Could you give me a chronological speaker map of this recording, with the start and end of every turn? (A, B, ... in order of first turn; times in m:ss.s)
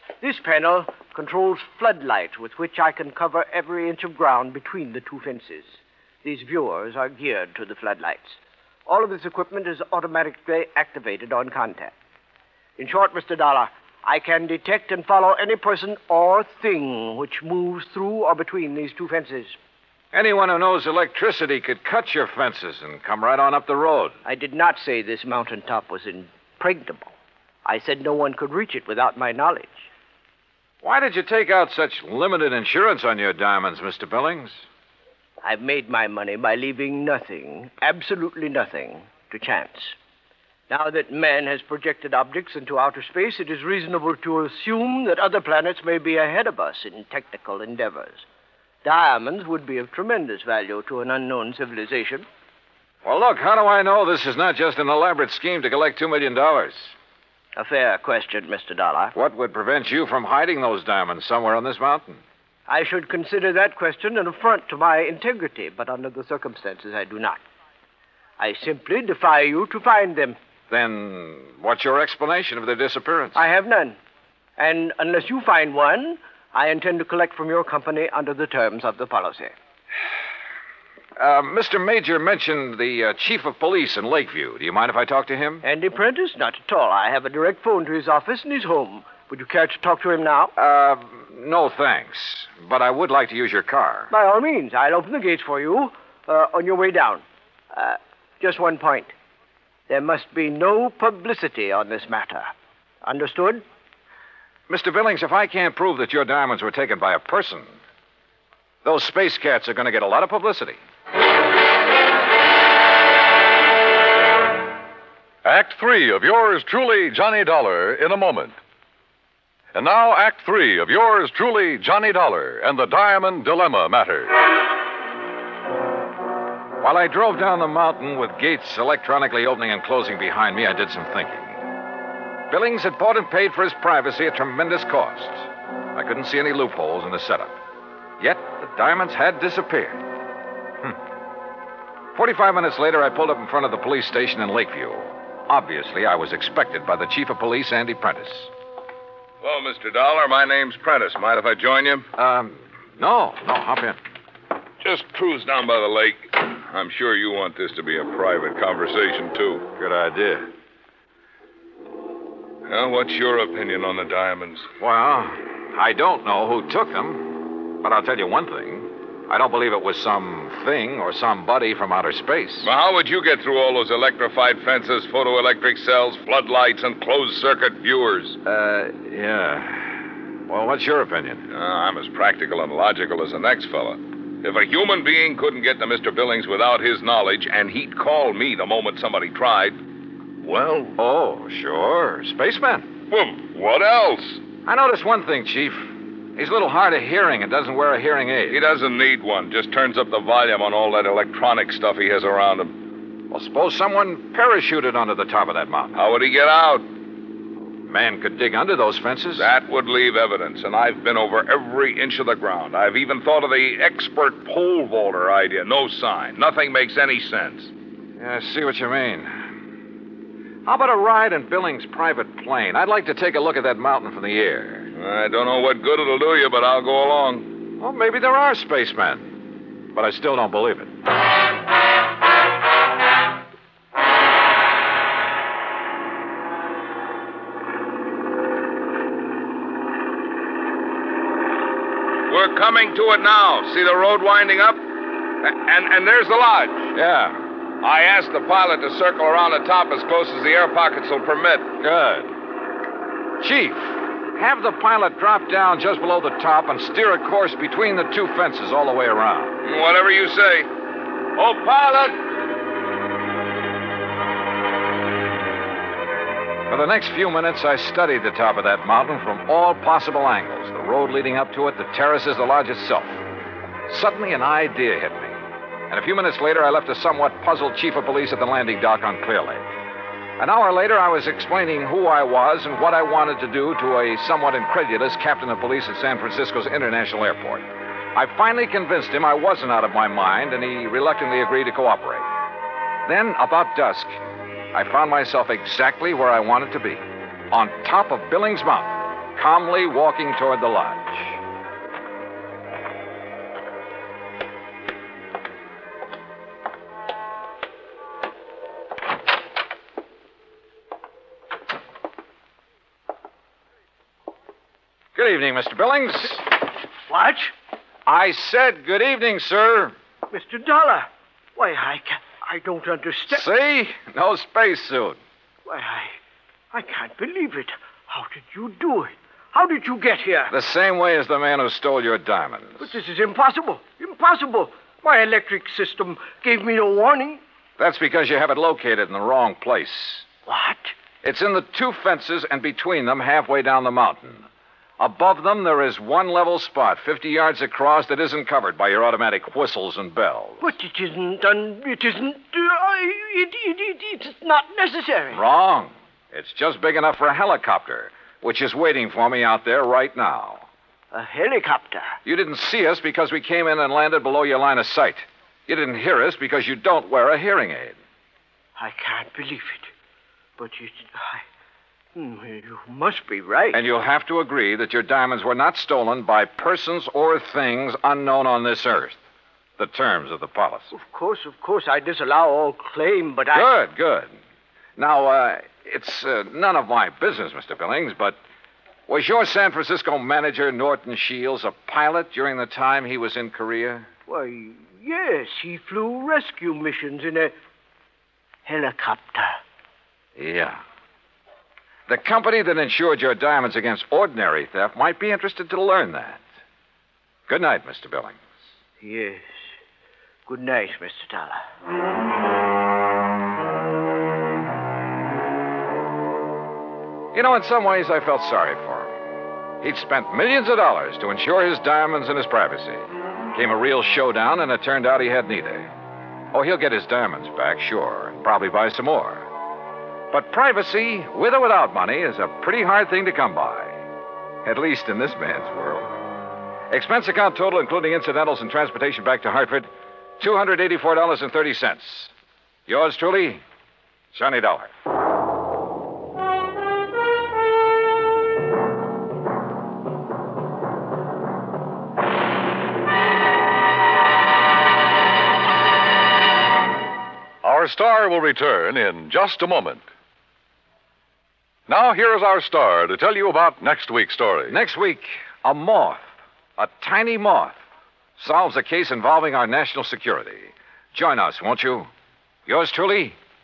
0:00.2-0:11.9 A
0:12.8-0:19.6 A
0:20.1-0:24.2 B
0:24.2-0:27.1 A
0:27.6-0:29.9 A
0:30.8-0:34.6 B
0:35.4-0:40.0 A
0:40.7-0:48.2 A
0:48.8-0:52.2 A
0:53.0-0:56.9 B
0:57.6-0:59.1 A
0:59.1-1:02.2 B
1:02.7-1:07.4 A
1:08.4-1:10.4 A
1:10.7-1:13.4 B
1:13.3-1:14.0 A
1:14.6-1:19.5 A
1:21.2-1:25.6 B
1:25.6-1:30.5 A
1:30.6-1:34.1 B
1:34.1-1:39.1 A
1:39.9-1:42.5 A
1:43.0-1:43.6 A
1:44.7-1:47.8 B
1:48.8-1:50.8 B
1:55.4-1:58.6 C
1:59.7-2:04.3 C
2:06.8-2:11.6 B
2:12.5-2:17.6 B
2:18.2-2:20.0 B
2:22.1-2:28.5 B
2:29.4-2:32.1 D
2:32.2-2:34.0 B
2:34.8-2:39.7 D
2:39.8-2:40.5 B
2:42.7-2:44.7 D
2:44.8-2:52.7 B
2:52.6-2:58.4 D
2:58.4-3:01.4 B
3:01.5-3:09.8 D
3:10.4-3:11.0 D
3:11.0-3:12.9 B
3:13.1-3:14.4 D
3:14.6-3:18.6 B
3:18.5-3:22.7 D
3:23.3-3:26.0 B
3:25.9-3:26.8 D
3:27.8-3:29.5 B
3:29.4-3:37.7 D
3:38.2-3:39.3 B
3:40.6-3:44.9 B
3:44.9-3:47.5 D
3:47.8-3:49.3 B
3:49.9-3:50.9 B
4:02.3-4:04.8 D
4:05.4-4:06.9 D
4:06.9-4:07.4 B
4:07.8-4:11.7 D
4:11.8-4:12.3 B
4:13.4-4:19.6 B
4:19.6-4:20.7 D
4:21.4-4:22.2 D
4:26.7-4:33.2 B
4:33.9-4:35.4 B
4:35.9-4:39.6 B
4:40.4-4:52.3 B
4:53.0-4:54.1 B
4:54.7-5:01.4 B
5:15.1-5:16.4 B
5:17.1-5:17.5 A
5:18.0-5:19.9 B
5:20.3-5:23.4 A
5:23.3-5:25.2 B
5:25.6-5:26.2 A
5:26.7-5:30.5 A
5:30.5-5:32.8 B
5:32.8-5:37.4 A
5:37.8-5:40.2 B
5:40.5-5:40.9 A
5:41.2-5:44.4 B
5:45.0-5:50.7 B
5:50.6-5:55.4 A
5:55.3-6:00.7 B
6:01.1-6:02.1 A
6:02.2-6:08.0 B
6:08.8-6:09.9 A
6:10.6-6:11.4 A
6:12.1-6:13.8 A
6:13.7-6:19.2 B
6:19.8-6:20.9 B
6:20.9-6:23.7 A
6:23.5-6:24.3 B
6:25.0-6:28.4 B
6:29.1-6:34.1 B
6:34.3-6:37.5 A
6:38.6-6:39.6 A
6:40.4-6:40.8 B
6:42.1-6:46.4 B
6:47.5-6:48.4 B
6:49.0-6:49.4 A
6:50.5-6:51.6 A
6:57.3-6:59.1 B
6:59.8-7:05.9 B
7:06.5-7:09.4 B
7:10.3-7:14.0 B
7:14.6-7:16.1 B
7:16.9-7:19.9 B
7:20.4-7:22.3 B
7:22.9-7:23.6 B
7:24.3-7:24.9 B
7:37.6-7:40.0 C
7:41.9-7:44.8 C
7:44.7-7:46.2 B
7:46.8-7:47.8 B
7:48.4-7:52.1 B
7:52.7-7:53.4 B